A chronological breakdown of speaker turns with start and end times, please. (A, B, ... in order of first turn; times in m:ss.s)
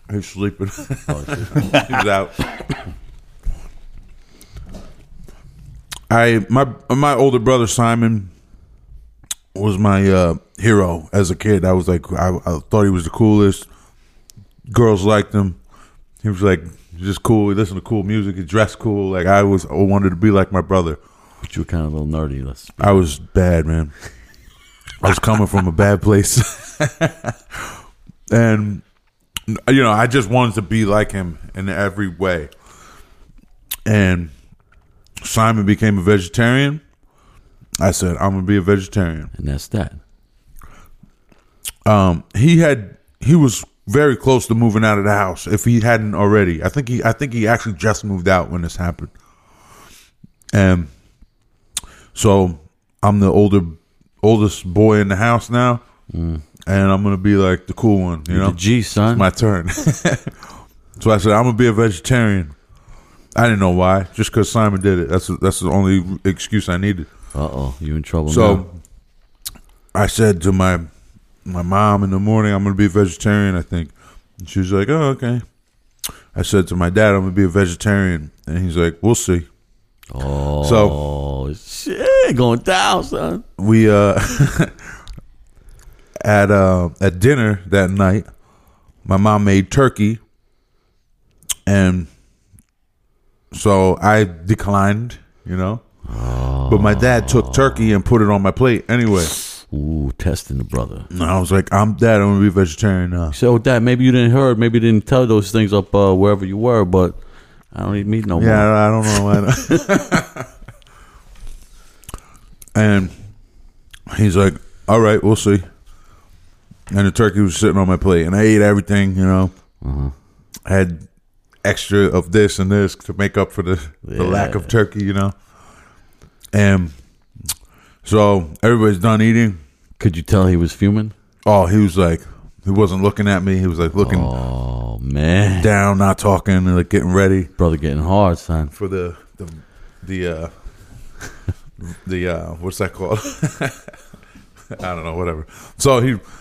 0:00.1-0:02.5 A
0:01.1-0:01.7 B
0:06.1-0:08.3 A
0:09.5-0:13.7 A
0:14.7-0:15.6 A
0:16.2-0:21.0 A
0:21.4-0:23.0 B
0:22.8-0:23.9 A
0:25.0-0:28.8 A
0:29.5-0:32.5 A
0:33.8-0:34.3 A
0:35.2-0:36.8 A
0:37.8-0:39.3 A
0:39.3-0:40.0 B
0:41.8-0:49.1 A
0:50.5-0:50.9 A
0:52.1-0:55.8 A
0:56.1-0:56.4 B
0:56.6-1:02.5 A
0:58.3-0:59.2 B
1:03.3-1:07.1 A
1:07.3-1:08.6 B
1:08.3-1:08.7 A
1:09.9-1:10.8 A
1:11.4-1:15.4 A
1:16.3-1:19.5 A
1:20.1-1:23.4 B
1:20.6-1:21.0 A
1:23.6-1:24.8 A
1:26.2-1:28.3 A
1:29.0-1:30.2 A
1:31.6-1:32.1 A
1:33.5-1:35.8 A
1:36.0-1:37.9 B
1:36.7-1:39.3 A
1:39.5-1:41.1 B
1:41.1-1:43.3 A
1:43.3-1:47.2 B
1:47.7-1:49.8 B
1:48.4-1:50.5 A
1:52.7-1:53.1 A
1:54.1-1:55.6 A
1:56.9-1:59.5 A
1:59.8-2:00.1 B
2:00.6-2:01.0 A
2:01.6-2:05.3 A
2:04.0-2:04.7 B
2:06.5-2:06.9 A
2:08.0-2:09.6 A
2:10.0-2:11.1 B
2:11.4-2:14.3 A
2:14.0-2:15.7 B
2:15.6-2:17.5 A
2:17.6-2:18.7 B
2:18.7-2:20.5 A
2:21.8-2:23.9 A
2:24.7-2:26.2 A